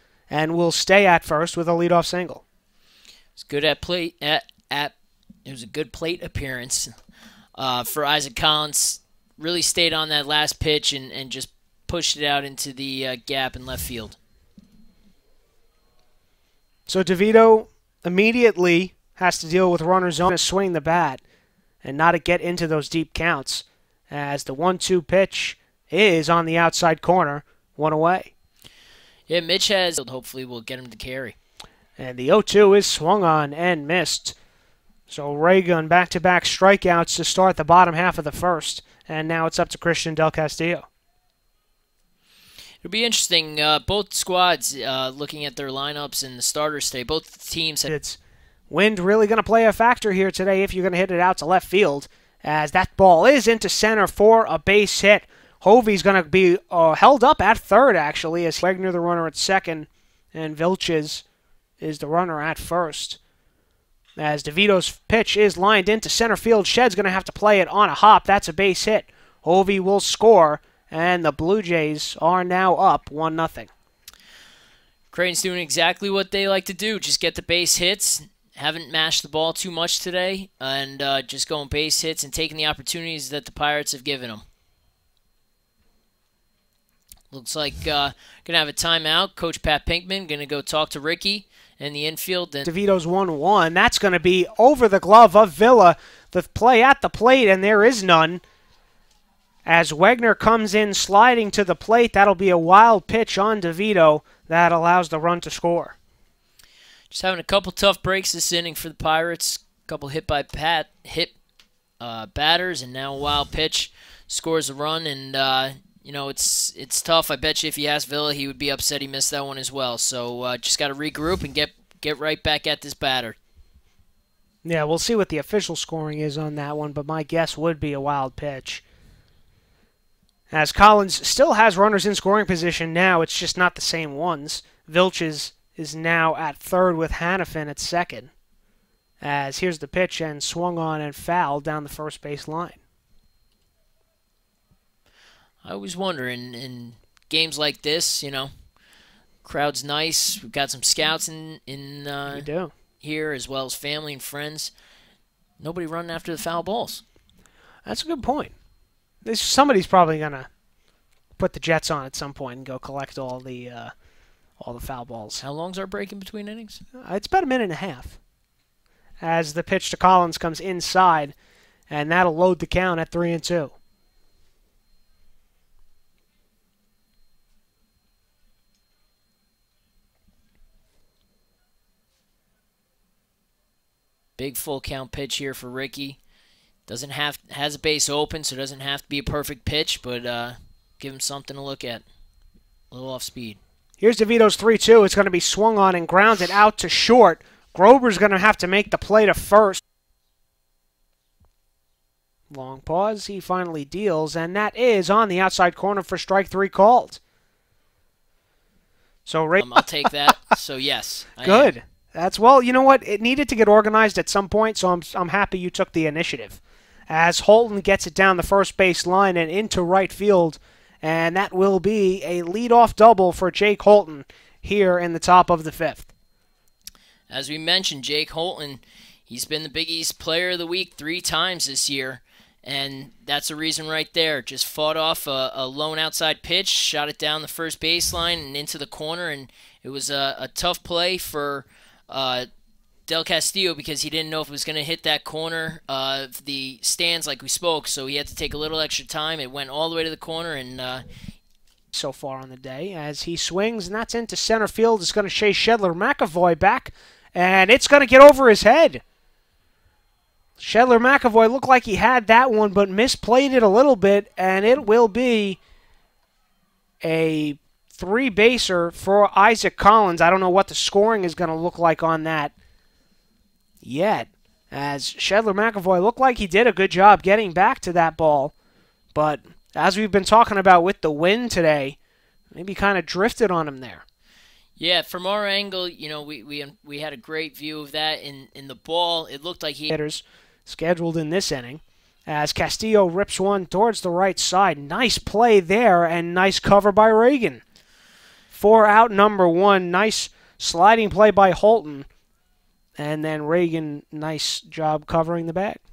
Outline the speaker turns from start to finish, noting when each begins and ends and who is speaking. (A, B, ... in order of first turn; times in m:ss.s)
0:00.3-0:02.4 A
0:03.4-0:04.9 B
0:05.4-0:06.9 B
0:07.6-0:14.2 B
0:16.9-0:21.2 A
0:21.8-0:28.3 A
0:29.3-0:31.3 B
0:32.0-0:34.4 A
0:35.1-0:40.8 A
0:42.8-0:47.9 B
0:47.9-0:48.2 A
0:48.7-1:01.2 A
1:01.8-1:03.2 A
1:04.2-1:13.7 A
1:15.1-1:24.4 B
1:27.3-1:32.7 B
1:32.6-1:38.4 A
1:39.6-1:46.0 A
1:47.1-1:51.3 B
1:52.0-2:03.4 B
2:04.6-2:08.8 A
2:10.5-2:18.3 A
2:19.2-2:22.8 A
2:25.6-2:28.5 B
2:29.4-2:32.5 B
2:32.3-2:32.7 A
2:33.0-2:34.7 B
2:35.6-2:37.0 B
2:37.8-2:38.5 A
2:39.2-2:40.5 A
2:41.4-2:43.9 A
2:44.6-2:45.4 A
2:45.4-2:46.8 B
2:47.0-2:48.2 A
2:49.2-2:51.3 A
2:51.9-2:53.7 A
3:04.4-3:06.2 B
3:06.9-3:12.0 B
3:12.9-3:13.6 B
3:14.0-3:19.8 A
3:22.5-3:27.2 A
3:29.2-3:29.9 A
3:29.6-3:31.7 B
3:31.4-3:46.1 A
3:47.3-4:02.5 B
4:03.1-4:11.0 B
4:11.9-4:19.0 A
4:20.6-4:25.6 A
4:27.0-4:32.5 A
4:33.8-4:38.5 A
4:39.1-4:42.0 A
4:42.5-4:44.0 A
4:44.8-4:49.9 B
4:49.9-4:57.6 A
4:58.5-5:02.1 A
5:03.0-5:05.8 A